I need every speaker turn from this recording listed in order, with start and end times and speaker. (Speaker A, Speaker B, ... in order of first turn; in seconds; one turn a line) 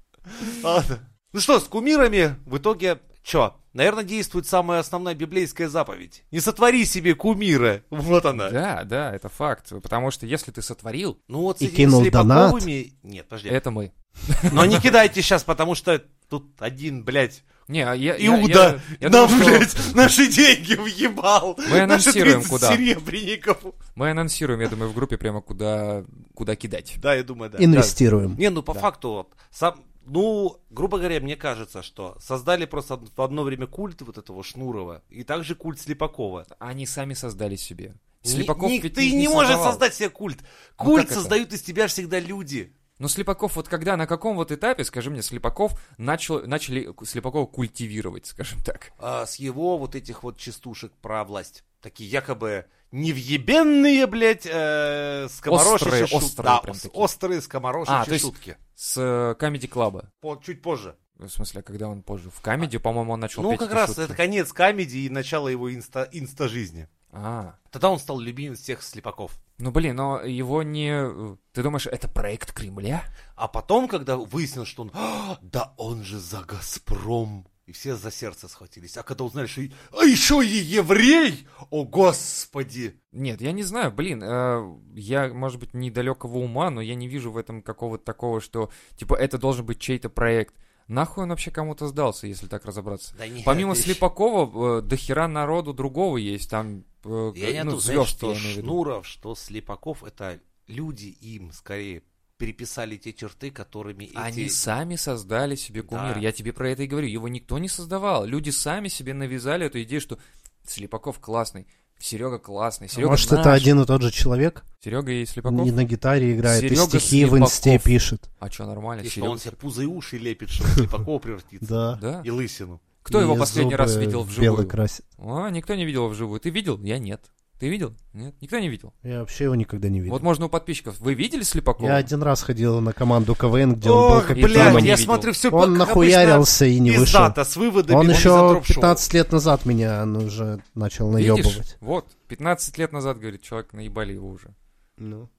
Speaker A: 0.4-8.6
Speaker B: 8.4-11.2
Speaker A: 11.3-13.6
Speaker C: 11.6-12.7
Speaker B: 13.5-14.9
Speaker A: 14.5-17.4
Speaker B: 17.7-19.7
Speaker A: 18.2-23.8
Speaker B: 21.6-22.8
Speaker B: 23.9-27.0
Speaker A: 27.0-36.5
Speaker C: 27.6-28.4
Speaker B: 36.5-39.8
Speaker A: 38.2-42.7
Speaker B: 40.8-41.4
Speaker B: 43.0-48.9
Speaker A: 49.0-58.6
Speaker B: 55.5-57.1
Speaker B: 57.9-60.1
Speaker A: 60.2-60.9
Speaker B: 61.2-64.2
Speaker A: 63.4-66.9
Speaker B: 67.1-67.6
Speaker A: 67.7-69.4
Speaker B: 69.6-73.1
Speaker A: 73.4-82.9
Speaker B: 83.1-98.8
Speaker A: 93.1-94.0
Speaker A: 97.3-104.6
Speaker B: 104.1-113.7
Speaker A: 105.9-106.2
Speaker C: 112.9-114.6
Speaker B: 114.8-115.7
Speaker C: 115.5-118.3
Speaker B: 116.4-119.5
Speaker A: 119.0-122.8
Speaker C: 121.6-122.0
Speaker B: 122.0-122.3
Speaker C: 123.0-125.0
Speaker B: 123.1-128.9
Speaker C: 129.0-130.2
Speaker B: 130.1-132.1
Speaker C: 131.8-137.4
Speaker A: 133.8-139.1
Speaker B: 134.3-135.3
Speaker C: 137.9-141.7
Speaker B: 141.2-144.5
Speaker C: 145.0-145.3